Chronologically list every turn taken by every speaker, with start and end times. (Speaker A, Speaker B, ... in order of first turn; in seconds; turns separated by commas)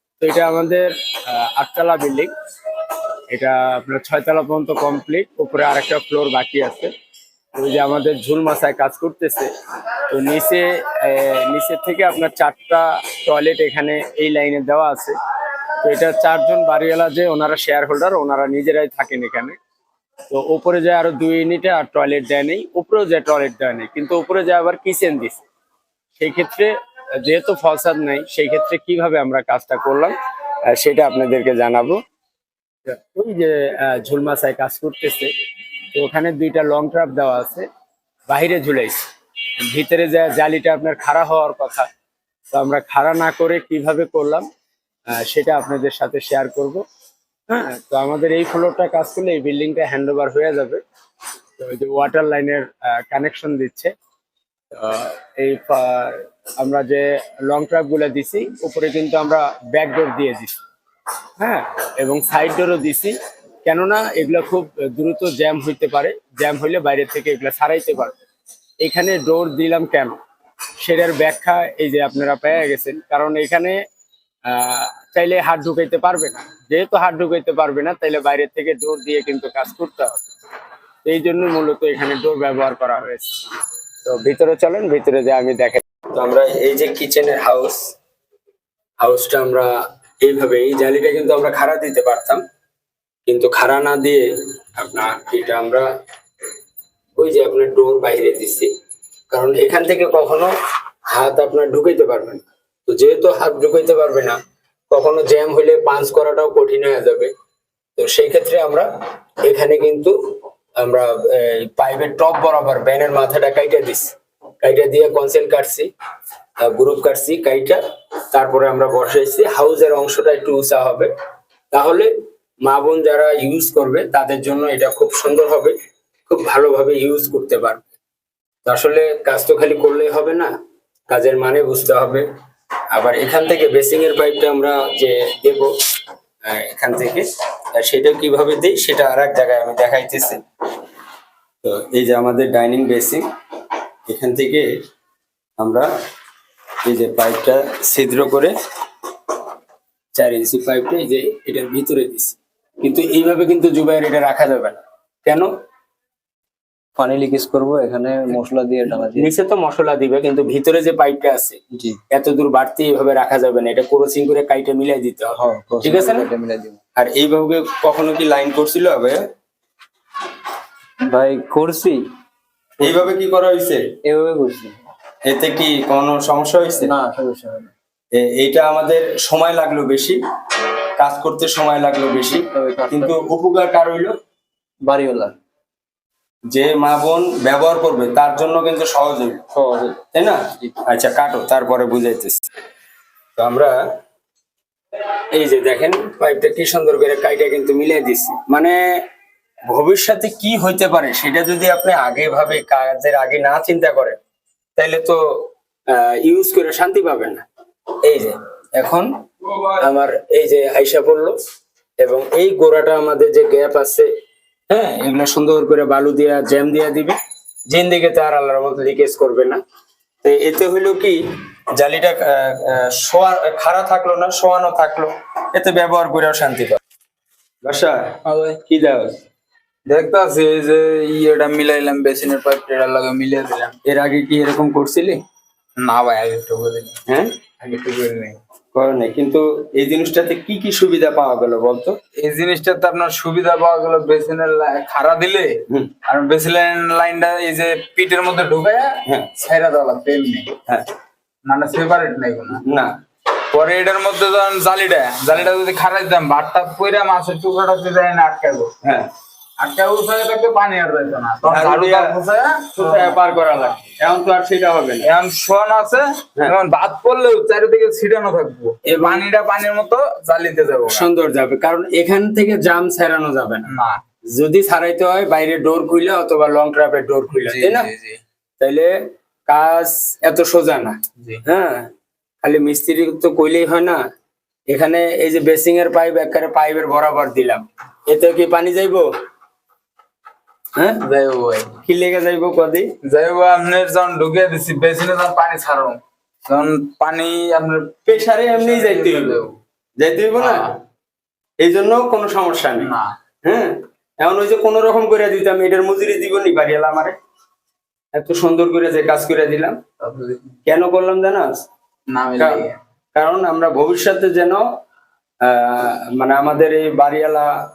Speaker A: 0.2-2.3, Speaker A: 3.3-6.9, Speaker A: 7.5-9.5, Speaker A: 10.1-15.2, Speaker A: 15.8-19.6, Speaker A: 20.3-25.4, Speaker A: 26.2-32.0, Speaker A: 32.9-35.3, Speaker A: 35.9-37.7, Speaker A: 38.3-39.0, Speaker A: 39.6-41.9, Speaker A: 42.5-44.5, Speaker A: 45.1-46.8, Speaker A: 47.5-50.8, Speaker A: 51.6-53.9, Speaker A: 54.7-60.5, Speaker A: 61.4-68.1, Speaker A: 68.8-70.2, Speaker A: 70.8-73.8, Speaker A: 74.5-80.2, Speaker A: 81.0-83.3, Speaker A: 84.0-87.9, Speaker A: 89.0-89.7, Speaker A: 90.2-92.4, Speaker A: 93.2-94.2, Speaker A: 94.8-95.9, Speaker A: 97.2-98.7, Speaker A: 99.3-100.5, Speaker A: 101.1-104.4, Speaker A: 104.9-107.3, Speaker A: 108.0-108.9, Speaker A: 109.4-110.1, Speaker A: 110.8-115.9, Speaker A: 116.6-117.8, Speaker A: 118.3-121.1, Speaker A: 121.7-122.1, Speaker A: 122.6-125.8, Speaker A: 126.3-127.8, Speaker A: 128.6-130.5, Speaker A: 131.1-132.2, Speaker A: 132.9-135.7, Speaker A: 136.4-140.4, Speaker A: 141.6-143.2, Speaker A: 144.1-144.7, Speaker A: 145.6-145.9, Speaker A: 146.8-148.5, Speaker A: 150.1-155.5, Speaker B: 157.0-159.3, Speaker A: 159.0-161.6, Speaker B: 161.7-162.0, Speaker A: 162.1-166.3, Speaker B: 165.4-166.8, Speaker A: 166.9-169.2, Speaker B: 171.1-172.0, Speaker A: 172.8-173.8, Speaker B: 172.8-173.1, Speaker B: 174.0-174.8, Speaker A: 175.2-176.9, Speaker B: 176.8-177.7, Speaker A: 178.1-180.2, Speaker A: 181.0-184.1, Speaker B: 182.5-183.2, Speaker B: 184.8-185.4, Speaker A: 186.5-189.4, Speaker B: 189.5-190.0, Speaker A: 190.1-192.4, Speaker A: 193.4-193.8, Speaker A: 195.3-198.8, Speaker A: 199.7-204.2, Speaker A: 204.8-207.4, Speaker A: 208.0-209.1, Speaker A: 209.7-211.3, Speaker A: 212.0-214.1, Speaker A: 214.7-217.2, Speaker A: 217.7-219.6, Speaker A: 220.2-221.2, Speaker A: 221.7-226.8, Speaker A: 227.6-229.1, Speaker C: 228.2-228.6, Speaker C: 229.9-233.7, Speaker A: 233.8-235.2, Speaker C: 235.8-237.0, Speaker A: 237.1-237.3, Speaker C: 237.6-238.4, Speaker A: 238.7-241.9, Speaker C: 242.2-250.5, Speaker C: 251.4-252.6, Speaker A: 252.5-252.9, Speaker C: 253.5-258.7, Speaker A: 258.8-259.1, Speaker C: 259.6-263.2, Speaker A: 261.4-262.1, Speaker A: 262.7-265.1, Speaker C: 265.0-271.1, Speaker A: 268.8-269.2, Speaker A: 270.9-273.7, Speaker C: 273.7-274.0, Speaker A: 274.3-277.9, Speaker C: 277.3-278.2, Speaker A: 278.6-278.9, Speaker A: 279.5-281.9, Speaker A: 282.4-284.0, Speaker A: 284.7-289.1, Speaker A: 290.8-291.0, Speaker C: 291.0-291.8, Speaker A: 291.8-292.9, Speaker C: 293.0-299.5, Speaker A: 298.1-299.4, Speaker A: 300.0-300.7, Speaker C: 300.4-300.7, Speaker A: 301.6-302.9, Speaker C: 302.8-303.1, Speaker A: 303.4-307.1, Speaker A: 308.1-309.8, Speaker C: 310.0-310.4, Speaker A: 310.6-311.6, Speaker C: 312.1-312.8, Speaker A: 312.3-314.6, Speaker A: 315.4-317.6